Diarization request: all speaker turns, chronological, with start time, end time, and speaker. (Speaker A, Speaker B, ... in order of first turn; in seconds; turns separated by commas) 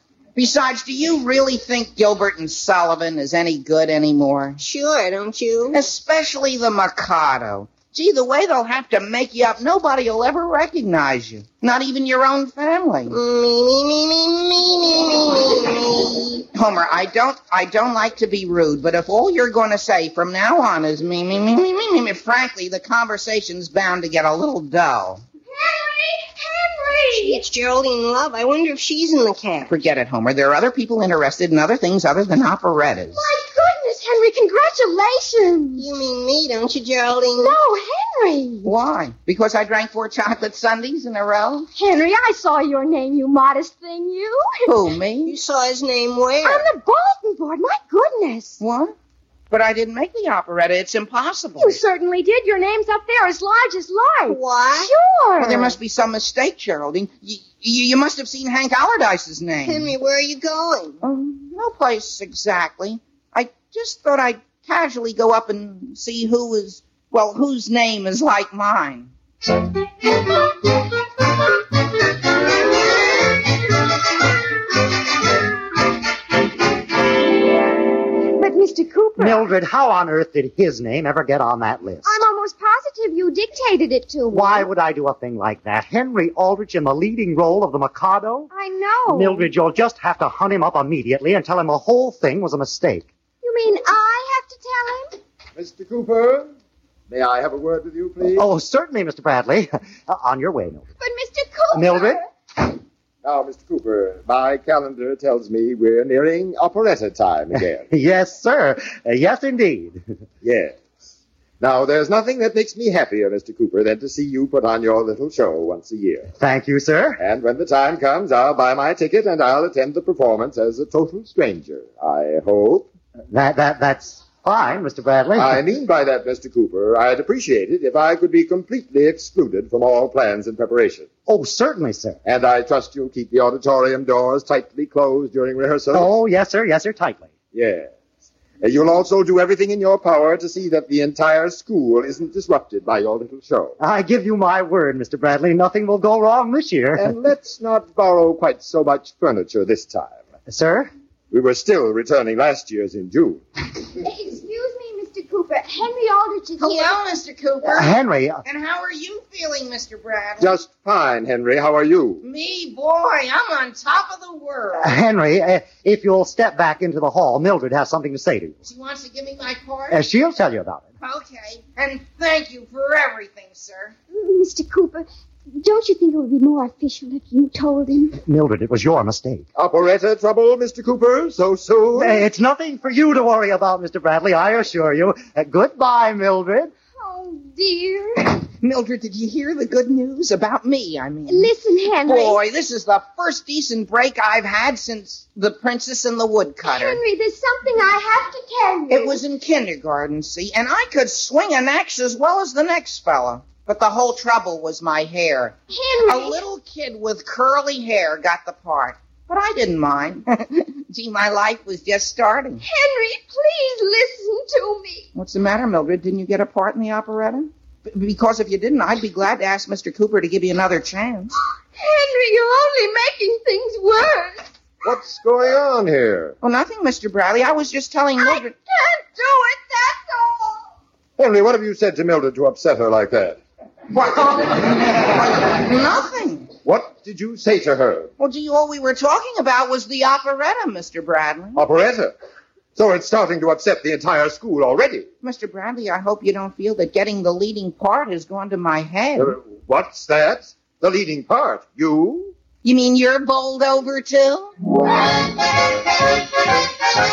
Speaker A: 0.3-4.6, Speaker B: 4.6-5.8, Speaker A: 5.7-13.2, Speaker B: 13.1-16.4, Speaker A: 16.5-25.2, Speaker C: 25.5-27.4, Speaker B: 27.2-29.7, Speaker A: 29.7-33.2, Speaker C: 33.1-35.9, Speaker B: 35.8-37.5, Speaker C: 37.4-38.7, Speaker A: 38.6-41.7, Speaker C: 41.8-44.9, Speaker A: 44.7-45.4, Speaker B: 45.2-46.6, Speaker C: 46.4-48.6, Speaker A: 48.6-48.9, Speaker A: 49.5-51.8, Speaker C: 51.6-55.8, Speaker B: 54.3-54.9, Speaker A: 55.4-59.9, Speaker B: 59.6-61.0, Speaker A: 61.0-69.1, Speaker C: 78.4-79.2, Speaker D: 79.2-82.1, Speaker C: 82.0-84.7, Speaker D: 84.3-88.5, Speaker C: 88.5-89.5, Speaker D: 89.1-93.1, Speaker C: 93.4-95.2, Speaker E: 95.6-96.5, Speaker E: 97.1-98.4, Speaker D: 98.2-100.8, Speaker C: 101.0-102.3, Speaker D: 101.7-102.2, Speaker E: 103.2-107.9, Speaker D: 107.5-110.0, Speaker E: 110.4-110.7, Speaker E: 111.6-116.3, Speaker D: 116.4-117.2, Speaker E: 117.2-122.9, Speaker D: 123.3-125.6, Speaker E: 125.3-131.1, Speaker D: 131.3-132.2, Speaker E: 132.2-136.1, Speaker D: 135.9-137.3, Speaker E: 137.5-137.9, Speaker E: 138.6-143.8, Speaker D: 143.8-147.2, Speaker E: 146.9-150.2, Speaker D: 150.5-150.9, Speaker E: 151.3-153.4, Speaker C: 154.0-157.0, Speaker A: 156.6-157.9, Speaker D: 157.6-158.4, Speaker A: 158.4-160.6, Speaker E: 160.4-162.2, Speaker A: 162.2-164.9, Speaker D: 164.8-168.6, Speaker A: 168.6-170.0, Speaker D: 169.9-170.8, Speaker A: 171.0-173.9, Speaker C: 174.1-178.2, Speaker D: 178.2-179.4, Speaker E: 179.5-182.2, Speaker D: 181.9-186.7, Speaker C: 187.0-188.3, Speaker A: 188.6-191.5, Speaker C: 191.3-192.4, Speaker A: 192.0-197.0, Speaker C: 196.6-199.2, Speaker A: 198.9-212.6, Speaker C: 205.7-206.4, Speaker C: 212.6-215.1, Speaker A: 215.1-221.3, Speaker C: 221.8-224.4, Speaker E: 224.8-226.4, Speaker A: 226.4-228.5, Speaker C: 228.2-230.6, Speaker E: 231.2-233.4, Speaker A: 233.9-236.5, Speaker E: 236.6-238.1, Speaker A: 238.2-241.6, Speaker E: 241.5-242.1, Speaker E: 242.8-245.1, Speaker A: 245.2-249.3, Speaker E: 249.2-252.3, Speaker A: 252.6-254.5